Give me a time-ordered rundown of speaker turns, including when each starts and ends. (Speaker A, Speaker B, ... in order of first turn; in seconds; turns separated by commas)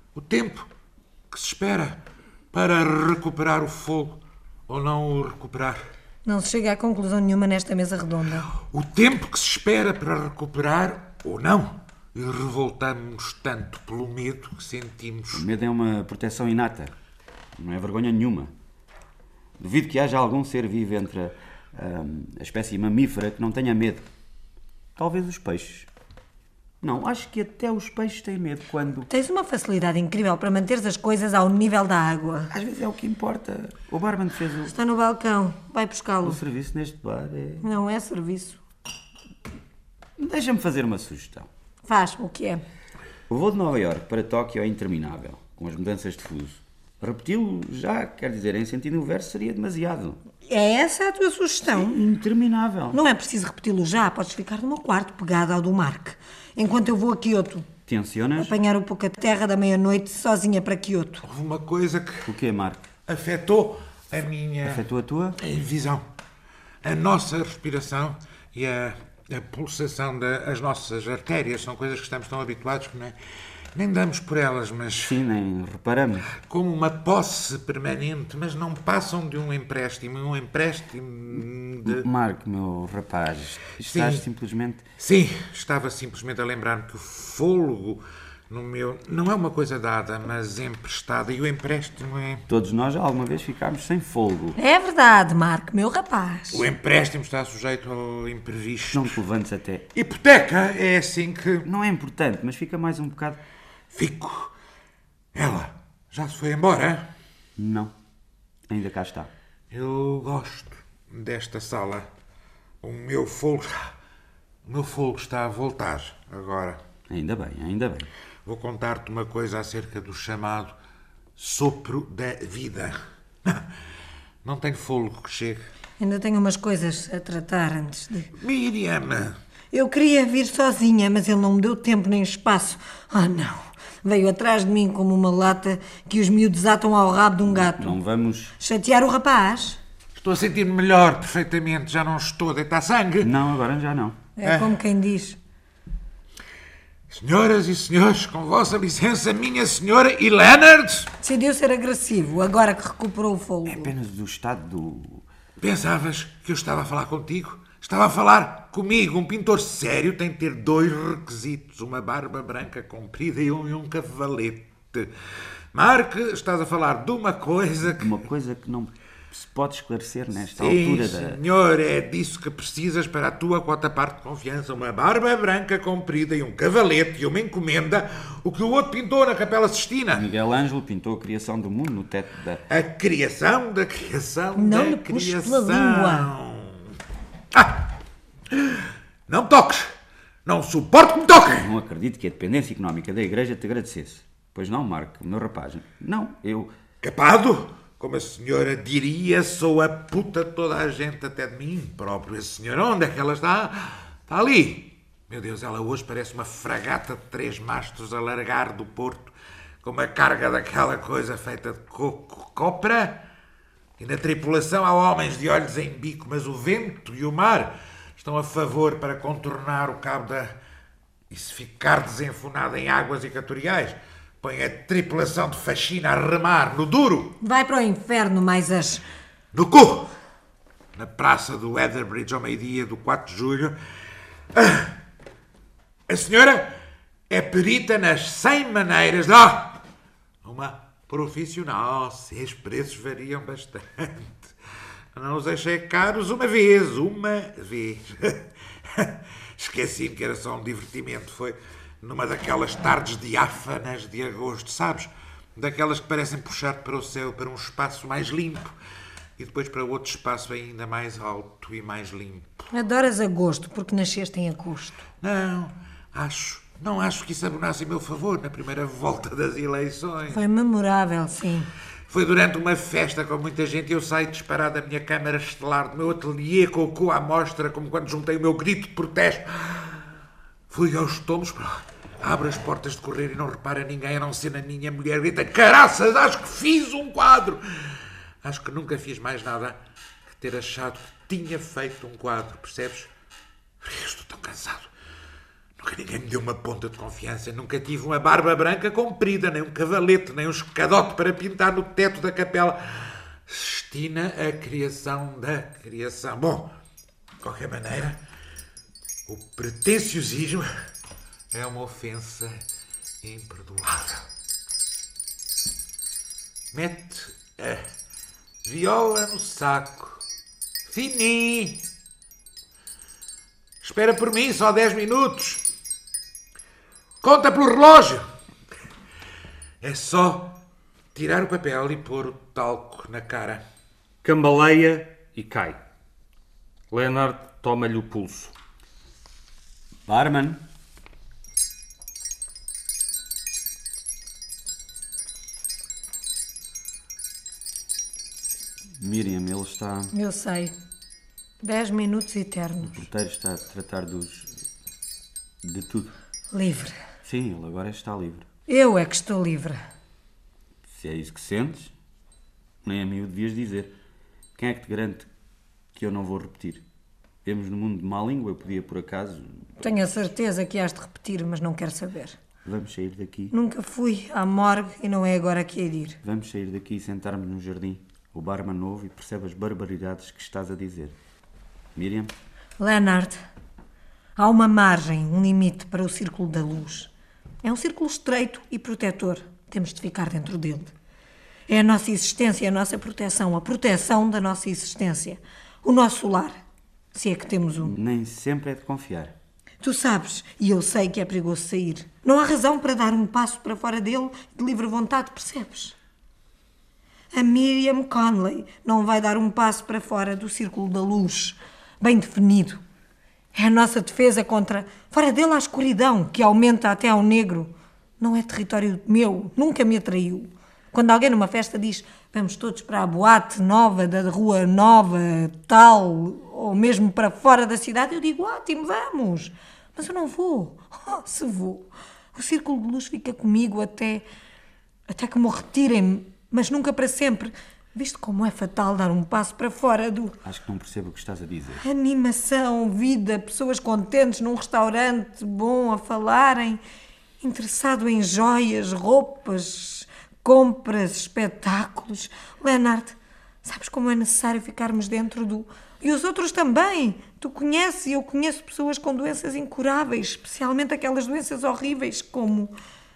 Speaker A: 0.1-0.7, Speaker A: 1.3-5.8, Speaker B: 6.2-8.5, Speaker A: 8.6-15.4, Speaker C: 15.3-16.9, Speaker C: 17.6-18.5, Speaker C: 19.6-24.1, Speaker C: 24.9-25.9, Speaker C: 26.8-29.1, Speaker B: 29.1-32.5, Speaker C: 32.5-34.7, Speaker B: 34.7-36.4, Speaker C: 36.2-37.7, Speaker B: 37.6-38.6, Speaker C: 40.2-41.5, Speaker B: 41.9-42.6, Speaker C: 43.3-50.2, Speaker B: 50.5-52.0, Speaker C: 51.7-53.0, Speaker B: 52.9-57.7, Speaker C: 57.9-58.5, Speaker B: 58.4-61.2, Speaker A: 61.2-62.4, Speaker C: 62.2-62.9, Speaker A: 63.1-64.8, Speaker C: 64.6-65.4, Speaker A: 65.4-66.0, Speaker A: 66.8-73.1, Speaker A: 73.7-75.2, Speaker C: 75.0-76.3, Speaker A: 76.3-82.1, Speaker C: 81.9-84.8, Speaker A: 83.8-84.2, Speaker A: 85.0-92.5, Speaker C: 92.5-94.6, Speaker B: 94.5-96.6, Speaker A: 96.5-99.2, Speaker C: 98.9-99.9, Speaker A: 99.9-101.7, Speaker C: 101.6-103.4, Speaker A: 103.9-104.5, Speaker A: 105.3-107.1, Speaker C: 107.6-107.9, Speaker C: 108.7-109.3, Speaker A: 109.7-112.1, Speaker A: 112.8-113.9, Speaker A: 114.6-116.8, Speaker C: 117.1-118.1, Speaker A: 118.4-120.7, Speaker A: 121.3-123.7, Speaker A: 124.4-125.7, Speaker B: 126.0-128.3, Speaker A: 128.4-129.4, Speaker B: 129.7-138.0, Speaker C: 137.5-138.5, Speaker B: 138.6-139.8, Speaker A: 140.1-143.3, Speaker C: 143.2-144.2, Speaker B: 144.4-145.4, Speaker A: 144.4-144.8, Speaker A: 147.1-151.1, Speaker B: 151.2-153.9, Speaker C: 153.7-155.2, Speaker A: 155.6-165.1, Speaker A: 165.7-168.2, Speaker C: 167.9-171.4, Speaker A: 170.5-180.3, Speaker C: 180.1-182.6, Speaker A: 182.7-186.9, Speaker B: 184.6-186.3, Speaker A: 187.5-187.9, Speaker A: 188.5-191.7, Speaker C: 191.6-196.7, Speaker A: 197.0-213.2, Speaker A: 214.0-220.5, Speaker A: 221.3-227.4, Speaker B: 227.4-229.0, Speaker A: 229.5-230.1, Speaker A: 230.9-233.8, Speaker A: 234.5-234.9, Speaker A: 236.1-236.8, Speaker A: 237.3-239.8, Speaker A: 240.4-244.5, Speaker A: 245.1-258.7, Speaker A: 259.4-262.5, Speaker B: 262.7-265.0, Speaker A: 265.2-270.4, Speaker B: 270.3-271.7, Speaker A: 272.1-280.1, Speaker A: 280.7-289.8, Speaker A: 290.3-293.1, Speaker A: 293.8-294.9, Speaker A: 295.8-306.7, Speaker A: 307.4-308.2, Speaker A: 309.3-310.7, Speaker A: 311.5-312.6, Speaker A: 313.2-314.3, Speaker A: 316.7-317.9, Speaker A: 318.6-320.2, Speaker A: 320.8-321.9, Speaker A: 323.8-325.6, Speaker A: 327.2-328.2, Speaker A: 329.8-330.6, Speaker A: 331.1-333.6, Speaker D: 334.2-335.8, Speaker D: 336.9-338.5, Speaker C: 340.1-340.6, Speaker C: 349.0-350.1, Speaker B: 350.1-350.7, Speaker B: 351.6-353.0, Speaker C: 352.8-354.5, Speaker C: 355.6-356.1, Speaker B: 356.5-356.9, Speaker C: 357.2-358.5, Speaker B: 358.7-359.8, Speaker C: 360.9-361.9, Speaker C: 362.8-363.9, Speaker C: 364.6-365.3, Speaker C: 365.9-366.8, Speaker C: 367.4-369.7, Speaker B: 369.8-372.4, Speaker C: 372.6-373.5, Speaker B: 373.5-376.2, Speaker C: 376.2-381.1, Speaker C: 381.9-382.3, Speaker B: 382.8-383.4, Speaker B: 384.4-387.1, Speaker B: 387.6-390.9, Speaker B: 391.7-396.6, Speaker B: 397.1-397.9, Speaker C: 397.8-399.3, Speaker B: 399.8-405.9, Speaker B: 407.3-412.8, Speaker B: 413.5-434.2, Speaker B: 435.1-440.4, Speaker C: 440.4-441.8, Speaker B: 441.8-446.8, Speaker B: 447.4-462.7